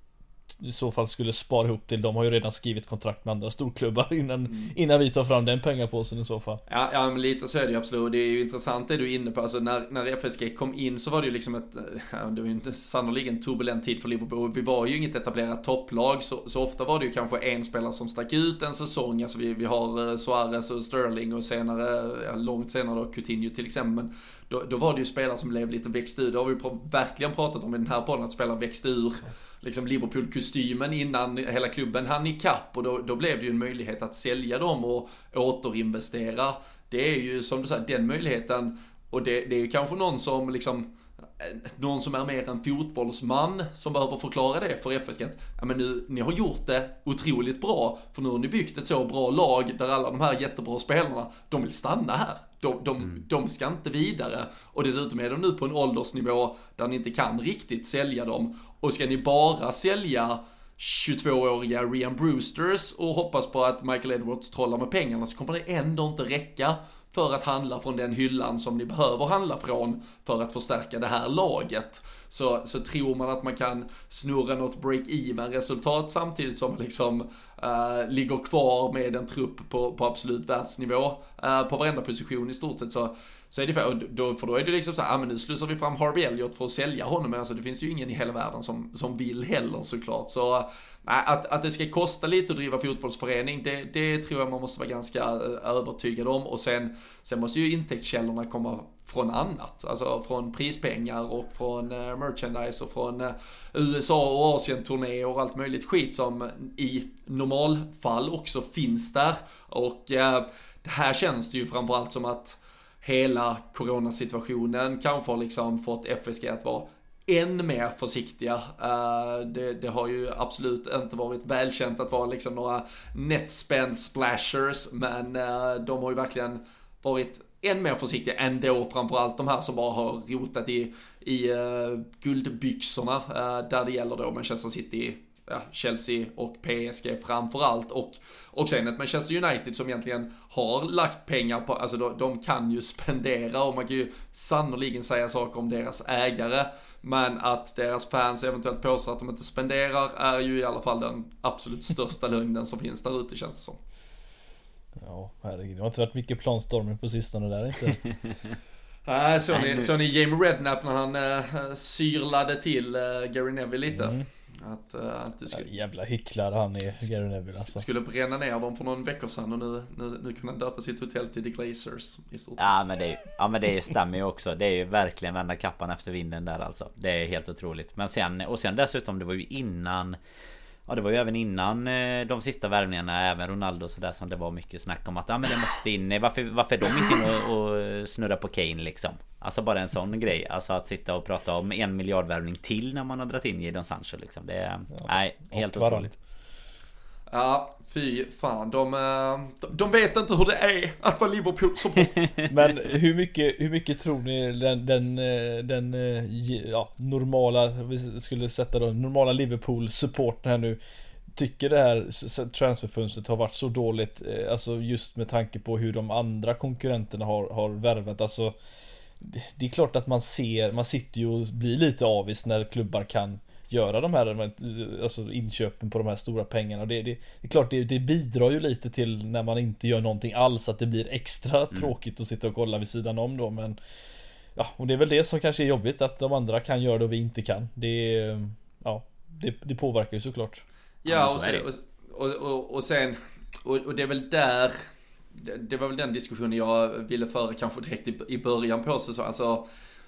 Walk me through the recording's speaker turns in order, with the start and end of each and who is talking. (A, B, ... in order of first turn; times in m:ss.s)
0:00.6-0:06.6 A
0:06.7-0:40.9 B
0:41.4-2:33.8 B
2:35.0-2:38.0 A
2:39.1-2:45.7 B
2:39.5-2:39.9 C
2:43.9-2:44.3 A
2:45.5-2:47.8 A
2:47.6-2:52.8 B
2:52.6-3:00.2 C
3:00.9-3:16.1 C
3:15.5-3:16.2 A
3:17.3-3:22.2 B
3:22.5-3:30.8 A
3:31.4-3:38.6 A
3:39.2-3:53.8 A
3:54.6-4:00.6 A
4:01.0-4:04.8 B
4:01.1-4:01.7 C
4:05.4-4:09.7 B